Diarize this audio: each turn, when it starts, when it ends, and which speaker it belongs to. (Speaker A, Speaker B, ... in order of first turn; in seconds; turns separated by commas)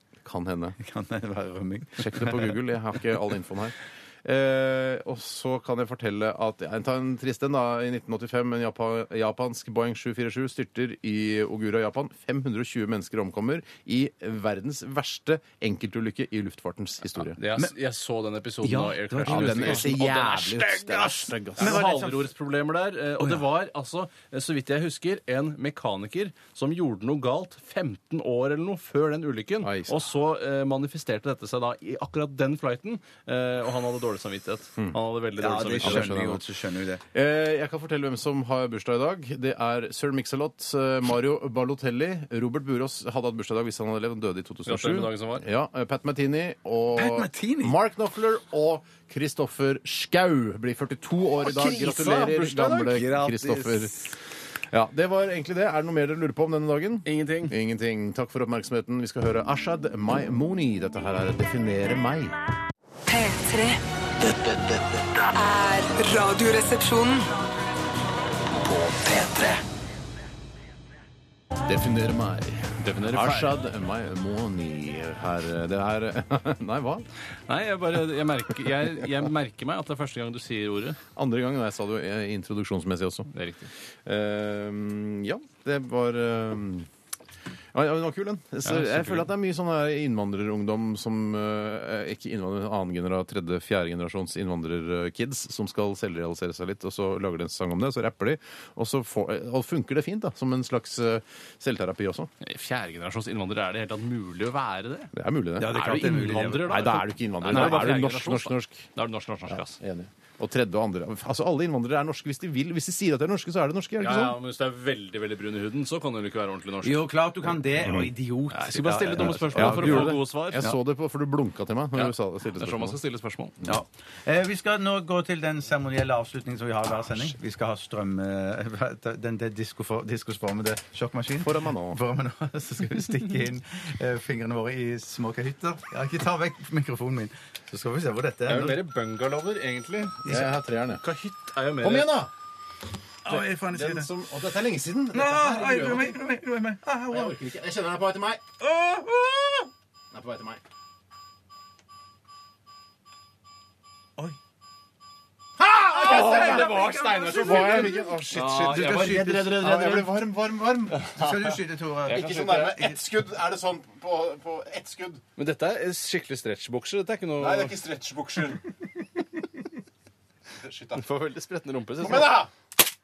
Speaker A: 0.2-0.8, Speaker B: 0.8-2.6, Speaker A: 2.0-17.4, Speaker C: 17.4-20.6, Speaker B: 18.6-22.3, Speaker A: 19.3-21.8, Speaker C: 21.6-36.2, Speaker A: 29.6-30.0, Speaker B: 35.4-37.0, Speaker A: 35.8-36.4, Speaker A: 37.1-54.1, Speaker C: 44.7-45.5, Speaker B: 47.0-47.8, Speaker B: 51.6-54.0, Speaker C: 51.6-52.9, Speaker A: 54.7-62.4, Speaker C: 57.0-57.5, Speaker D: 63.1-63.8, Speaker E: 64.2-65.0, Speaker D: 65.3-67.4, Speaker E: 68.5-69.6, Speaker A: 71.7-77.1, Speaker C: 72.8-73.5, Speaker C: 77.5-81.0, Speaker A: 81.2-83.3, Speaker C: 83.3-83.7, Speaker A: 84.0-86.9, Speaker A: 87.7-102.3, Speaker C: 88.7-89.3, Speaker C: 102.4-109.8, Speaker A: 105.1-108.9, Speaker B: 105.6-107.0, Speaker B: 107.5-108.0, Speaker A: 109.5-114.4, Speaker C: 114.0-117.1, Speaker B: 116.8-120.8, Speaker C: 118.5-120.7, Speaker A: 119.1-123.0, Speaker C: 122.0-123.6, Speaker B: 123.7-138.8, Speaker A: 131.4-132.0, Speaker C: 138.5-140.2, Speaker A: 140.3-141.0, Speaker C: 141.0-142.1, Speaker A: 141.8-142.3, Speaker B: 143.2-144.1, Speaker A: 143.3-146.1, Speaker B: 145.1-147.4, Speaker A: 147.1-148.4, Speaker B: 148.6-149.7, Speaker A: 150.1-150.6, Speaker A: 155.6-161.6, Speaker B: 155.9-160.0, Speaker C: 156.0-157.6, Speaker C: 158.3-160.1, Speaker B: 161.1-163.0, Speaker C: 162.1-162.8, Speaker A: 162.1-165.2, Speaker C: 165.4-167.8, Speaker A: 167.4-168.7, Speaker A: 170.6-171.0, Speaker C: 170.9-172.4, Speaker A: 172.0-172.5